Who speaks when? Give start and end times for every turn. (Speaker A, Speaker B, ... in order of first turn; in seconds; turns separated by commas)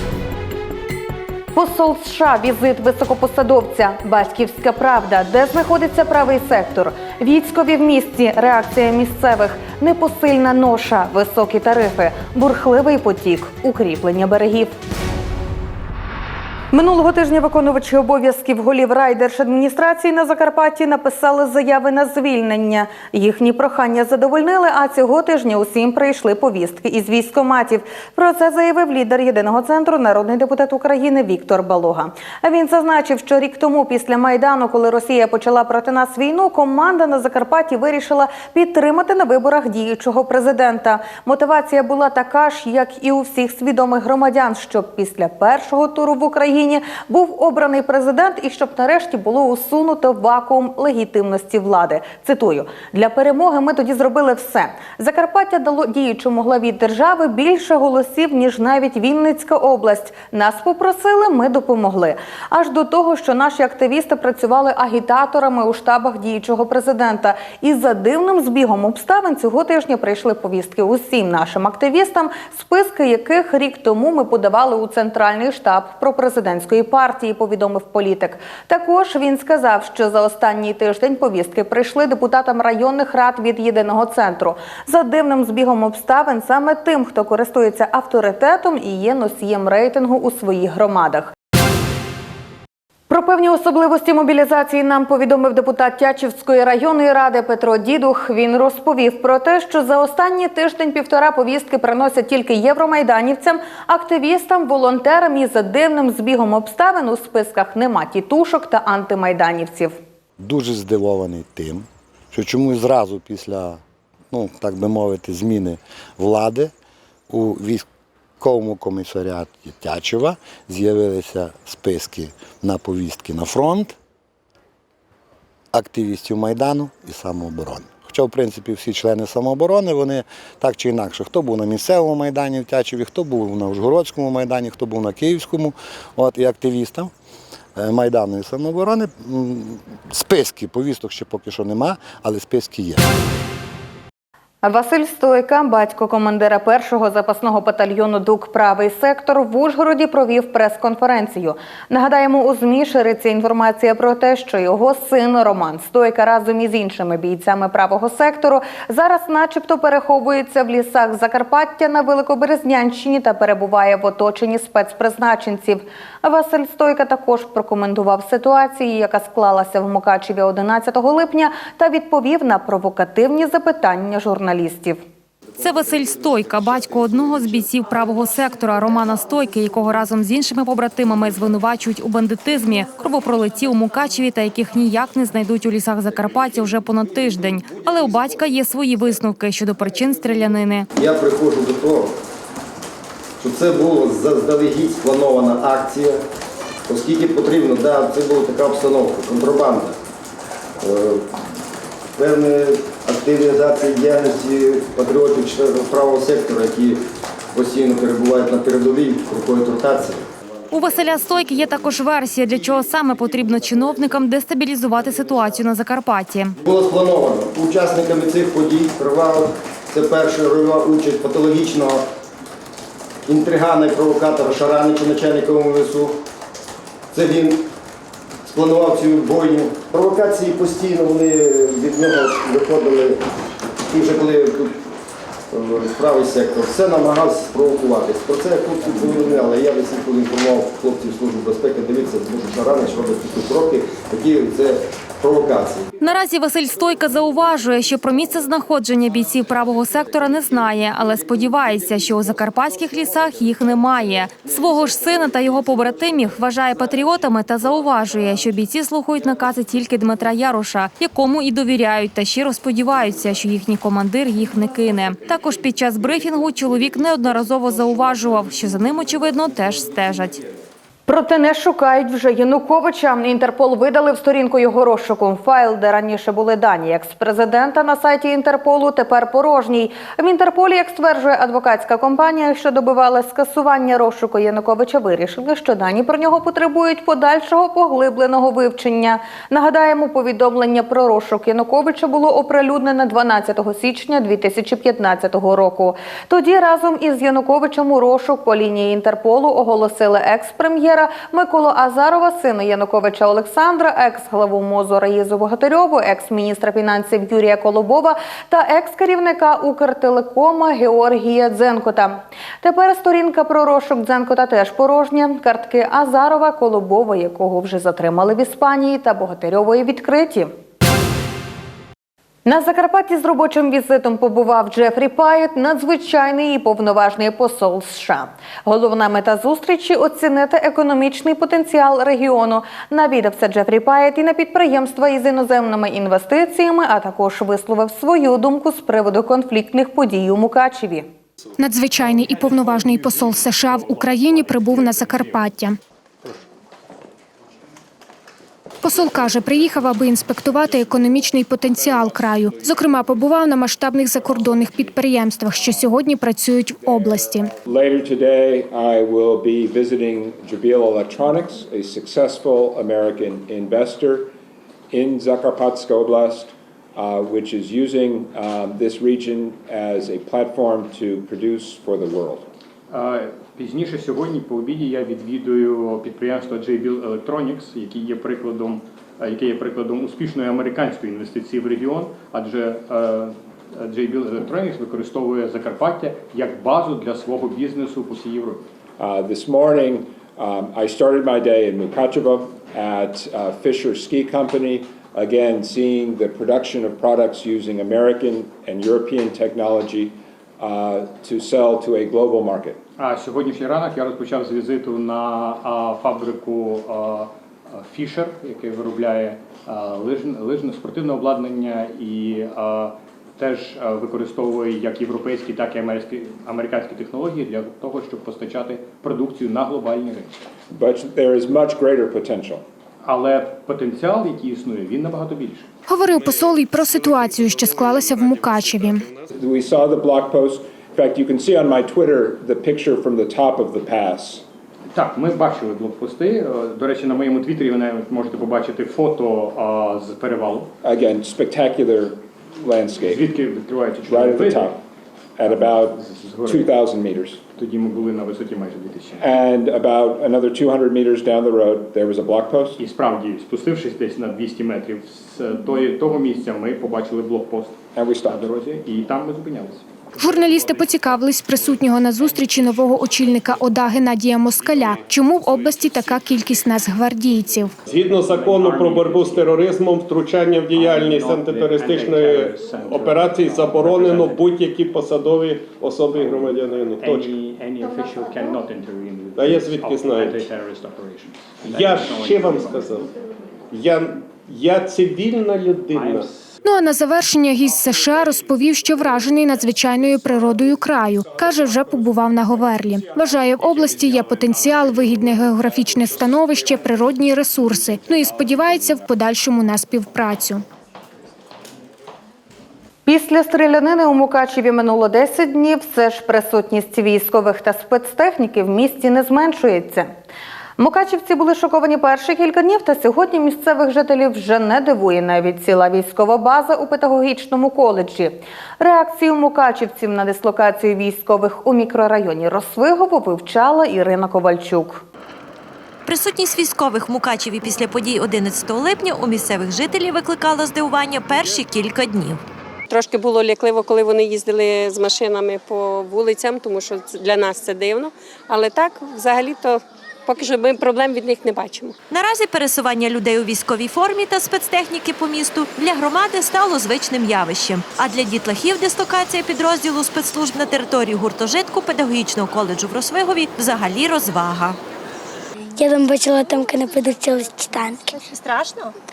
Speaker A: 1.5-14.8, Speaker A: 16.7-91.3, Speaker A: 93.1-110.0, Speaker B: 110.4-116.7, Speaker B: 117.3-117.8, Speaker B: 118.4-124.0, Speaker B: 125.7-137.1, Speaker B: 137.7-143.0, Speaker A: 144.6-175.0, Speaker C: 175.6-190.9, Speaker D: 190.9-192.1, Speaker D: 193.4-196.2, Speaker D: 196.9-199.9, Speaker D: 200.8-201.3, Speaker D: 202.2-207.0, Speaker D: 207.5-210.2, Speaker C: 210.7-216.6, Speaker D: 216.7-222.0, Speaker D: 223.2-226.2, Speaker D: 227.1-227.6, Speaker D: 228.4-233.2, Speaker D: 233.9-234.8, Speaker D: 235.5-245.8, Speaker C: 246.0-270.4, Speaker A: 271.1-320.5, Speaker A: 322.4-341.1, Speaker E: 341.6-345.8, Speaker E: 348.8-357.5, Speaker F: 356.9-364.3, Speaker F: 364.9-372.5, Speaker G: 372.9-388.6, Speaker F: 389.0-402.8, Speaker G: 403.0-420.4, Speaker F: 420.7-422.6, Speaker G: 423.0-425.7, Speaker E: 425.9-429.1, Speaker F: 429.3-434.4, Speaker G: 434.9-440.7, Speaker F: 440.8-443.3, Speaker G: 443.0-444.8, Speaker F: 444.0-444.8, Speaker F: 445.4-447.4, Speaker G: 445.4-446.7, Speaker G: 447.5-449.3, Speaker F: 449.2-452.8, Speaker G: 452.8-459.9, Speaker F: 457.9-458.4, Speaker E: 460.2-467.7, Speaker H: 467.8-477.3, Speaker G: 468.2-469.5, Speaker G: 470.7-474.4, Speaker G: 476.1-482.9, Speaker H: 479.3-480.4, Speaker H: 481.6-483.1, Speaker H: 483.7-486.3, Speaker G: 485.9-486.3, Speaker E: 486.6-500.6, Speaker A: 503.1-510.1, Speaker A: 510.8-525.0, Speaker I: 526.0-532.4, Speaker J: 532.9-542.0, Speaker I: 542.1-554.8, Speaker K: 555.8-558.3